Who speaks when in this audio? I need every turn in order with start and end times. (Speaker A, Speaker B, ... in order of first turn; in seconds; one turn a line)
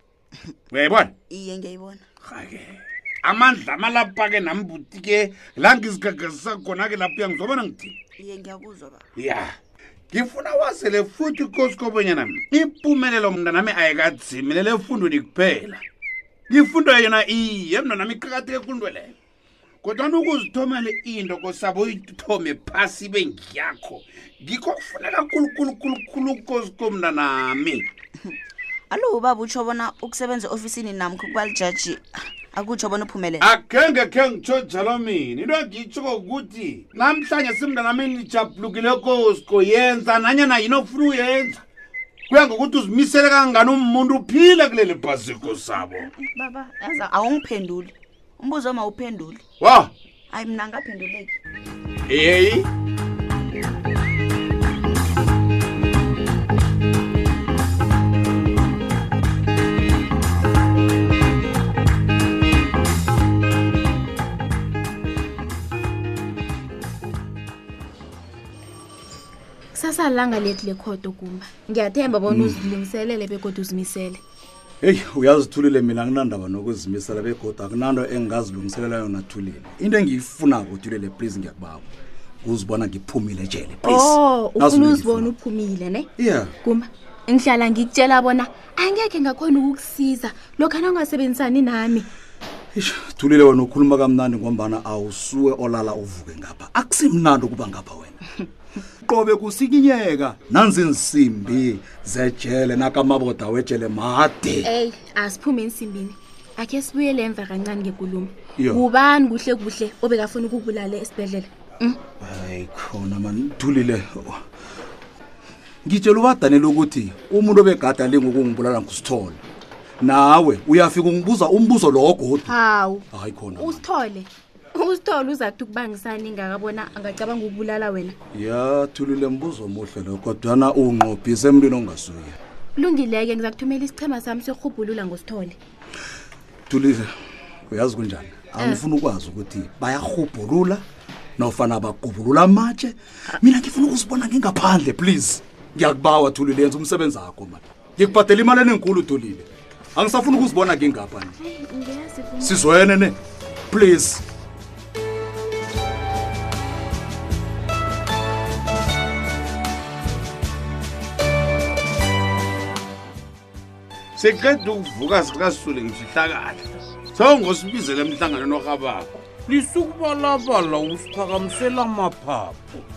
Speaker A: 0.7-1.1
Speaker B: 1.3-2.0
Speaker A: 2.2-7.9
Speaker B: 8.2-9.1
Speaker A: 9.2-9.5
Speaker A: 10.1-15.8
Speaker A: 16.5-19.1
Speaker A: 19.8-27.9
Speaker B: 28.9-33.5
Speaker A: 33.4-41.6
Speaker A: 42.3-46.1
Speaker B: 45.9-49.4
Speaker A: 49.6-49.9
Speaker B: 50.3-51.4
Speaker A: 52.1-52.7
Speaker C: 69.7-74.2
Speaker D: 72.3-72.6
Speaker D: 74.8-81.9
Speaker D: 82.4-85.3
Speaker C: 83.8-86.1
Speaker D: 86.2-86.5
Speaker C: 86.6-92.1
Speaker D: 92.7-98.2
Speaker D: 99.0-104.7
Speaker C: 104.6-112.0
Speaker D: 108.6-108.8
Speaker D: 112.2-114.4
Speaker D: 115.8-119.4
Speaker D: 120.0-122.5
Speaker C: 122.5-128.1
Speaker D: 123.1-123.8
Speaker D: 128.3-132.4
Speaker C: 132.8-135.6
Speaker D: 136.7-137.1
Speaker D: 137.7-140.8
Speaker D: 141.4-151.3
Speaker C: 151.3-152.6
Speaker D: 152.4-153.2
Speaker D: 153.7-154.2
Speaker A: 164.2-169.1
Speaker E: 169.4-172.8